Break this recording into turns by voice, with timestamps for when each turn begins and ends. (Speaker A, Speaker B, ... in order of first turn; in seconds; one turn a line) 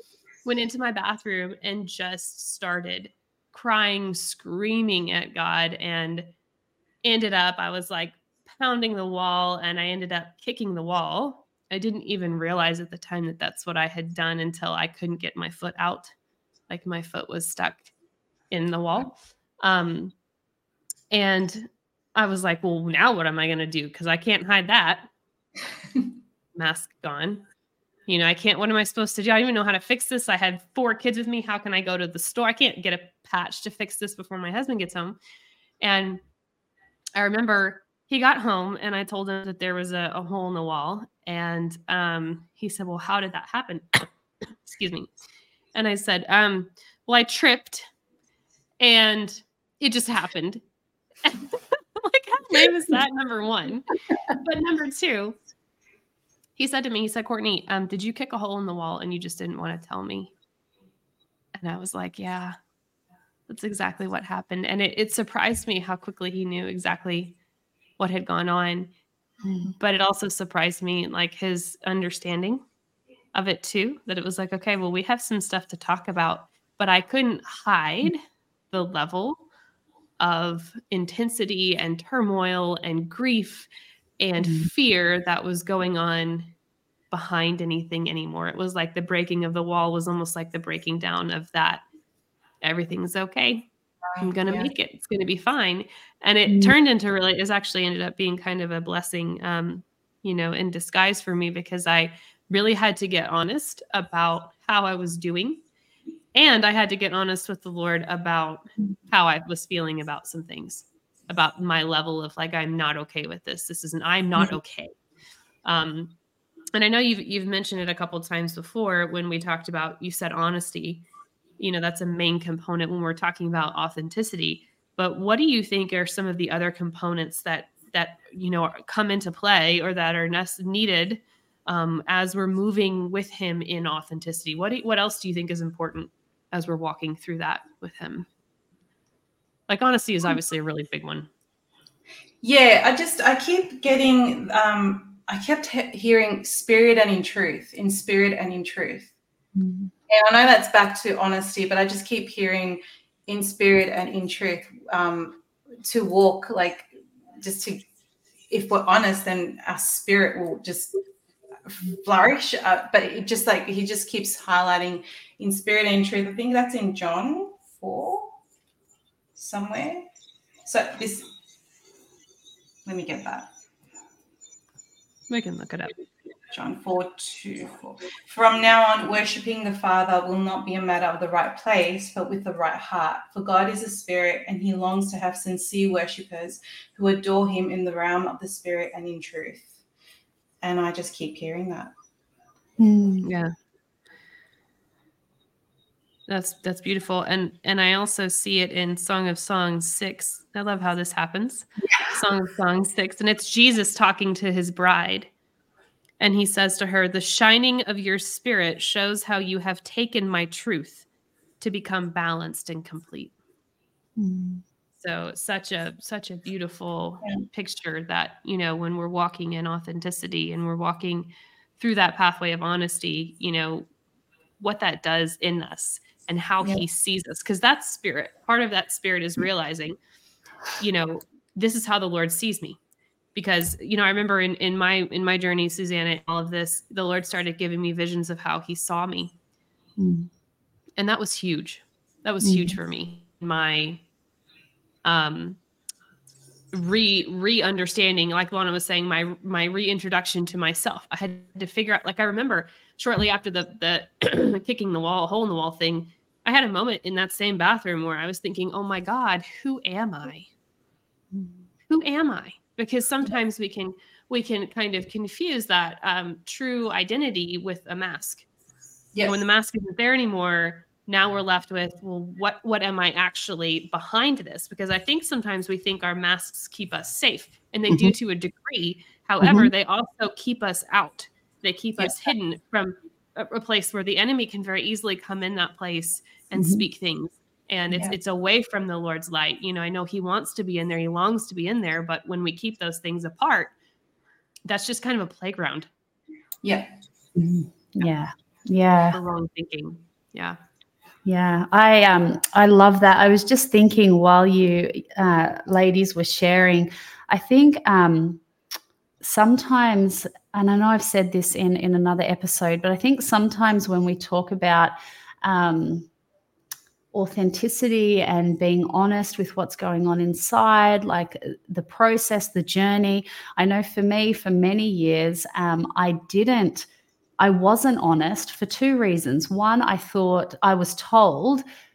Speaker A: 0.5-6.3
Speaker A: 7.0-16.1
Speaker A: 16.7-17.9
Speaker A: 18.5-20.1
Speaker A: 21.1-25.1
Speaker A: 26.6-27.4
Speaker A: 28.1-35.2
Speaker A: 35.8-36.2
Speaker A: 37.2-44.1
Speaker A: 44.6-45.1
Speaker A: 45.7-47.9
Speaker A: 48.8-50.6
Speaker A: 51.2-55.4
Speaker A: 56.6-60.3
Speaker A: 61.6-62.6
Speaker A: 63.5-67.3
Speaker A: 68.0-68.9
Speaker B: 69.4-69.7
Speaker A: 69.8-72.6
Speaker A: 73.3-79.4
Speaker A: 80.2-83.7
Speaker A: 84.2-86.5
Speaker B: 84.4-84.7
Speaker A: 87.1-91.8
Speaker A: 92.6-93.7
Speaker C: 94.1-94.7
Speaker A: 94.2-105.6
Speaker B: 96.5-96.7
Speaker A: 106.3-114.9
Speaker A: 115.7-116.1
Speaker A: 116.7-121.0
Speaker A: 121.6-138.3
Speaker A: 139.7-141.3
Speaker C: 142.4-149.1
Speaker B: 149.6-149.9
Speaker C: 150.1-157.8
Speaker C: 158.5-160.9
Speaker C: 161.7-168.3
Speaker C: 169.4-170.1
Speaker C: 170.7-171.3
Speaker C: 172.8-173.5
Speaker A: 175.3-175.9
Speaker C: 176.5-189.7
Speaker C: 190.6-191.9
Speaker B: 192.8-193.3
Speaker A: 193.2-193.5
Speaker A: 196.3-205.3
Speaker B: 201.8-202.2
Speaker A: 206.2-211.1
Speaker A: 211.6-213.3
Speaker B: 214.2-214.6
Speaker A: 215.0-223.9
Speaker A: 224.6-230.0
Speaker A: 230.8-232.8
Speaker A: 233.3-239.3
Speaker B: 240.0-240.3
Speaker A: 241.0-244.0
Speaker B: 242.4-242.8
Speaker A: 245.1-245.6
Speaker A: 246.7-260.5
Speaker A: 261.9-268.5
Speaker A: 269.2-293.7
Speaker B: 277.9-278.1
Speaker B: 279.4-279.7
Speaker B: 286.6-286.8
Speaker C: 287.9-288.2
Speaker A: 294.7-295.9
Speaker C: 296.6-296.9
Speaker B: 297.4-299.2
Speaker A: 299.1-300.6
Speaker B: 301.2-308.4
Speaker B: 309.2-316.1
Speaker B: 317.1-326.9
Speaker B: 327.4-331.6